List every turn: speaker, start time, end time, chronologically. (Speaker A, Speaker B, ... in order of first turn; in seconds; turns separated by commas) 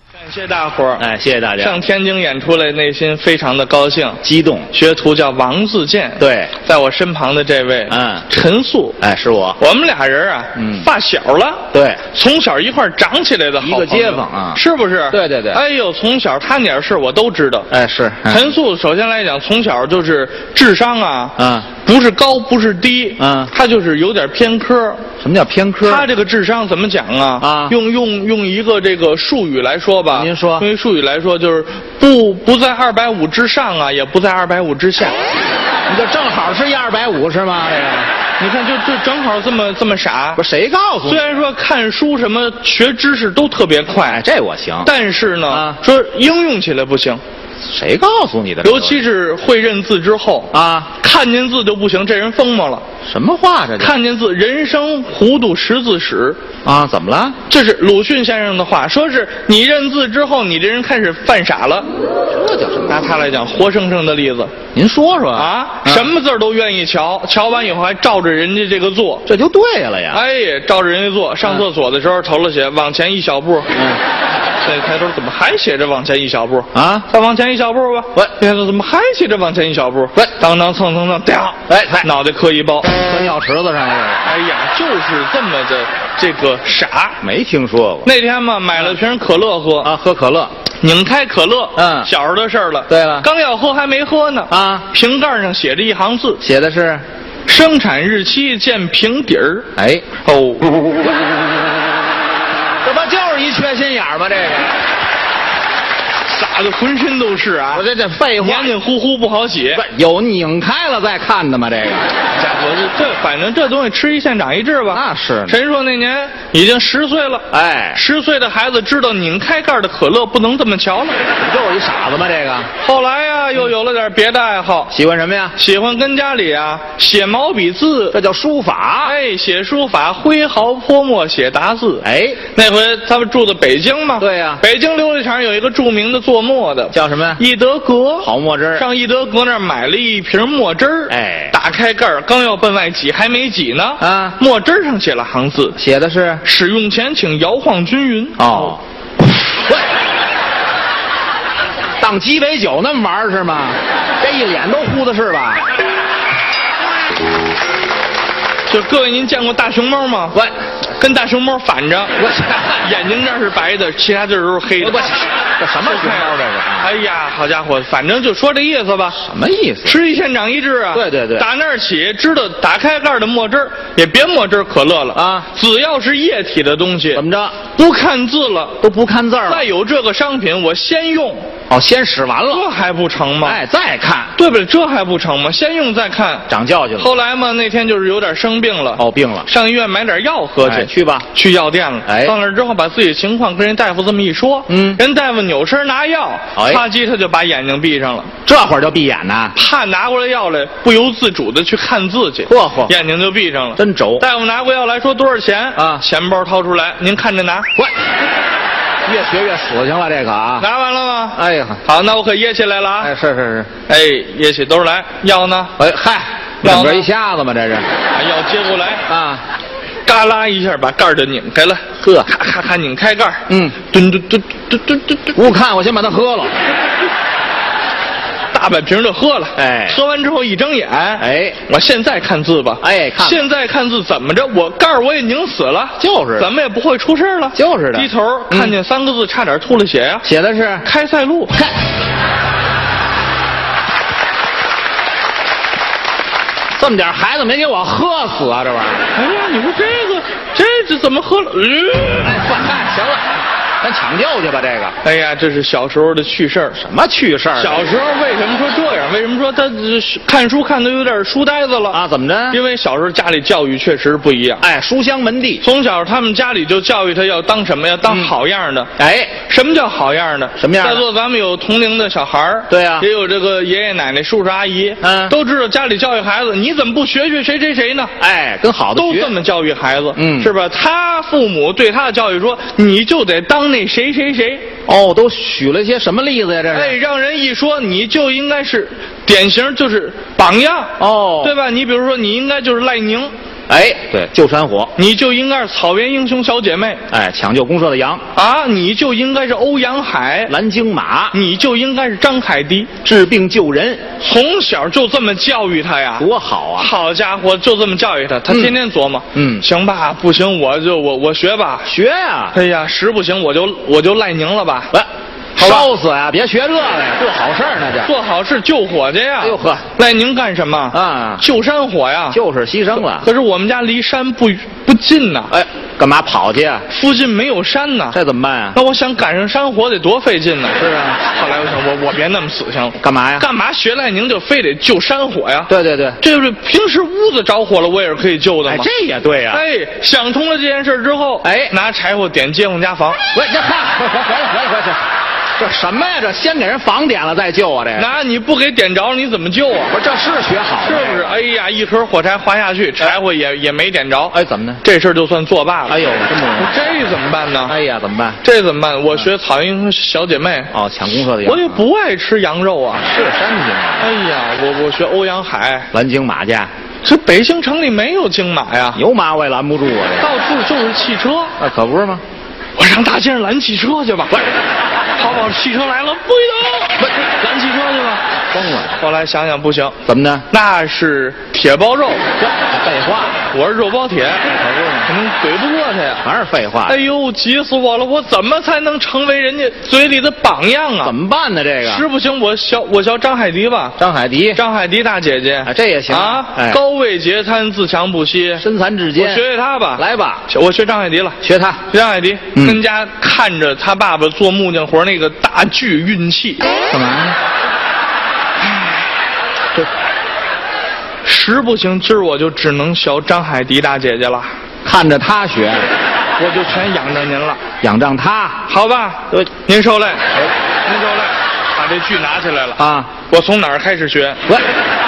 Speaker A: 0.1-9.0, Speaker B: 1.0-1.8, Speaker B: 4.2-4.7, Speaker B: 6.2-6.5, Speaker B: 7.9-8.3, Speaker B: 9.0-9.6, Speaker A: 9.6-17.7, Speaker B: 10.6-10.9, Speaker B: 11.7-12.0, Speaker B: 13.6-15.6, Speaker B: 17.7-18.5, Speaker A: 18.3-25.0, Speaker B: 21.4-21.7, Speaker B: 23.2-23.5, Speaker B: 25.2-26.1, Speaker A: 25.8-35.3, Speaker B: 27.4-27.8, Speaker B: 30.1-30.7, Speaker B: 35.9-38.1, Speaker A: 38.4-40.4, Speaker B: 40.4-41.5, Speaker A: 41.0-44.2, Speaker B: 44.1-44.9, Speaker A: 44.8-47.2, Speaker B: 45.5-45.8, Speaker B: 47.6-49.1, Speaker A: 48.6-52.8, Speaker B: 50.5-50.9, Speaker B: 53.1-54.0, Speaker A: 53.8-56.4, Speaker B: 56.6-57.4, Speaker A: 57.5-61.9, Speaker B: 62.3-63.0, Speaker A: 62.9-64.5, Speaker B: 64.7-66.1, Speaker A: 65.3-69.3, Speaker B: 69.2-70.2, Speaker A: 70.1-73.7, Speaker B: 73.7-74.0, Speaker A: 74.6-83.0, Speaker B: 76.7-77.1, Speaker B: 81.7-82.1, Speaker B: 82.9-84.3, Speaker A: 84.2-87.2, Speaker B: 87.2-88.1, Speaker A: 88.0-89.9, Speaker B: 89.8-90.5, Speaker A: 90.8-96.4, Speaker B: 91.8-92.1, Speaker B: 92.9-93.3, Speaker B: 94.5-94.9, Speaker B: 96.4-97.0, Speaker A: 97.5-99.7, Speaker B: 99.8-100.0, Speaker A: 100.2-100.7, Speaker B: 102.8-104.8, Speaker A: 106.3-107.9, Speaker B: 107.7-108.8, Speaker A: 108.4-109.8, Speaker B: 109.7-112.1, Speaker A: 112.3-121.2, Speaker B: 114.9-115.6, Speaker B: 117.5-118.0, Speaker B: 121.3-122.7, Speaker A: 122.8-124.9, Speaker B: 124.9-125.5, Speaker A: 125.5-128.2, Speaker B: 128.1-129.2, Speaker A: 129.0-145.8, Speaker B: 132.0-132.4, Speaker B: 134.2-134.6, Speaker B: 136.9-137.4, Speaker B: 138.2-138.8, Speaker B: 141.1-141.6, Speaker B: 144.0-144.4, Speaker B: 145.8-146.4, Speaker A: 146.4-148.8, Speaker B: 148.4-148.8, Speaker B: 152.0-155.6, Speaker A: 158.7-160.4, Speaker A: 161.0-162.2, Speaker B: 162.2-163.0, Speaker A: 162.8-165.3, Speaker B: 164.8-166.9, Speaker A: 165.8-169.2, Speaker B: 169.2-170.0, Speaker A: 169.8-178.8, Speaker B: 170.9-171.5, Speaker B: 175.1-175.5, Speaker B: 177.1-177.6, Speaker B: 178.8-179.7, Speaker A: 179.5-181.5, Speaker B: 181.7-182.7, Speaker A: 182.5-183.6, Speaker B: 183.4-184.3, Speaker A: 184.3-186.5, Speaker B: 186.5-187.2, Speaker A: 187.0-198.3, Speaker B: 188.9-189.5, Speaker B: 190.6-191.3, Speaker B: 192.0-192.3, Speaker B: 194.7-195.0, Speaker B: 196.6-196.8, Speaker B: 198.4-199.6, Speaker A: 199.5-207.7, Speaker B: 202.4-202.9, Speaker B: 203.8-204.3, Speaker B: 205.8-206.0, Speaker B: 209.0-210.7, Speaker A: 210.6-213.1, Speaker B: 211.3-211.8, Speaker B: 213.0-213.7, Speaker A: 213.9-215.7, Speaker B: 215.8-217.9, Speaker A: 216.6-217.1, Speaker A: 218.1-219.1, Speaker B: 219.1-219.4, Speaker A: 220.0-225.4, Speaker B: 222.0-222.3, Speaker B: 223.5-223.8, Speaker B: 225.3-226.5, Speaker A: 228.5-240.2, Speaker B: 229.6-230.0, Speaker B: 231.2-231.6, Speaker B: 232.8-233.5, Speaker B: 236.0-236.5, Speaker B: 237.5-238.8, Speaker B: 240.2-240.9, Speaker A: 240.8-241.6, Speaker B: 246.8-249.1, Speaker A: 249.1-252.5, Speaker B: 252.2-255.0, Speaker A: 255.0-256.8, Speaker B: 256.8-257.9, Speaker A: 257.6-264.6, Speaker B: 261.9-262.6, Speaker B: 264.6-265.6, Speaker A: 265.6-268.9, Speaker B: 268.0-268.3, Speaker B: 269.0-269.3, Speaker A: 269.4-278.1, Speaker B: 270.6-271.1, Speaker B: 272.7-273.1, Speaker B: 275.0-275.4, Speaker B: 278.2-279.3, Speaker A: 278.9-284.7, Speaker B: 280.1-280.5, Speaker B: 284.9-287.0, Speaker A: 286.7-293.3, Speaker B: 291.0-291.6, Speaker B: 293.7-294.9, Speaker A: 294.9-297.0, Speaker B: 297.1-298.2, Speaker A: 298.3-300.5, Speaker B: 300.5-301.4, Speaker A: 301.3-302.9, Speaker B: 303.0-304.0, Speaker A: 304.2-311.9, Speaker B: 306.2-306.9, Speaker B: 308.5-308.8, Speaker B: 309.3-309.6, Speaker B: 311.8-312.6, Speaker A: 312.5-314.9, Speaker B: 314.9-318.1, Speaker A: 315.6-315.9, Speaker A: 318.0-322.4, Speaker B: 319.4-319.9, Speaker B: 320.9-321.4, Speaker B: 322.3-323.3, Speaker A: 322.9-325.5, Speaker B: 325.5-326.9, Speaker A: 326.9-328.2, Speaker B: 328.1-328.8, Speaker A: 328.7-338.9, Speaker B: 330.8-331.2, Speaker B: 333.0-333.5, Speaker B: 335.7-336.2, Speaker B: 338.6-339.6, Speaker A: 339.5-343.2, Speaker B: 341.4-341.7, Speaker B: 343.3-345.0, Speaker B: 345.6-348.1, Speaker A: 347.9-349.9, Speaker B: 349.9-351.4, Speaker A: 350.8-357.8, Speaker B: 354.3-354.8, Speaker B: 355.9-356.8, Speaker B: 357.6-358.4, Speaker A: 358.4-360.7, Speaker B: 360.7-361.9, Speaker A: 361.4-363.0, Speaker B: 363.0-364.1, Speaker A: 364.0-365.9, Speaker B: 365.9-366.7, Speaker A: 367.0-369.0, Speaker B: 368.9-370.3, Speaker A: 370.2-371.5, Speaker B: 371.6-372.2, Speaker A: 372.8-374.5, Speaker A: 375.1-378.2, Speaker B: 378.5-379.0, Speaker A: 379.0-379.9, Speaker B: 380.0-380.5, Speaker A: 380.5-382.2, Speaker B: 382.4-383.4, Speaker A: 383.5-384.5, Speaker B: 384.5-385.1, Speaker A: 385.0-386.2, Speaker B: 386.2-387.0, Speaker A: 386.9-391.1, Speaker B: 391.0-392.1, Speaker A: 391.8-394.0, Speaker B: 394.0-394.6, Speaker A: 394.5-398.6, Speaker B: 395.6-396.8, Speaker B: 398.6-400.4, Speaker A: 399.2-401.4, Speaker B: 401.4-401.8, Speaker A: 401.9-406.7, Speaker B: 402.5-402.8, Speaker B: 406.9-407.4, Speaker A: 411.2-414.5, Speaker B: 414.8-415.9, Speaker A: 416.4-417.6, Speaker B: 417.8-418.6, Speaker A: 418.7-420.2, Speaker A: 420.8-424.4, Speaker B: 422.8-423.1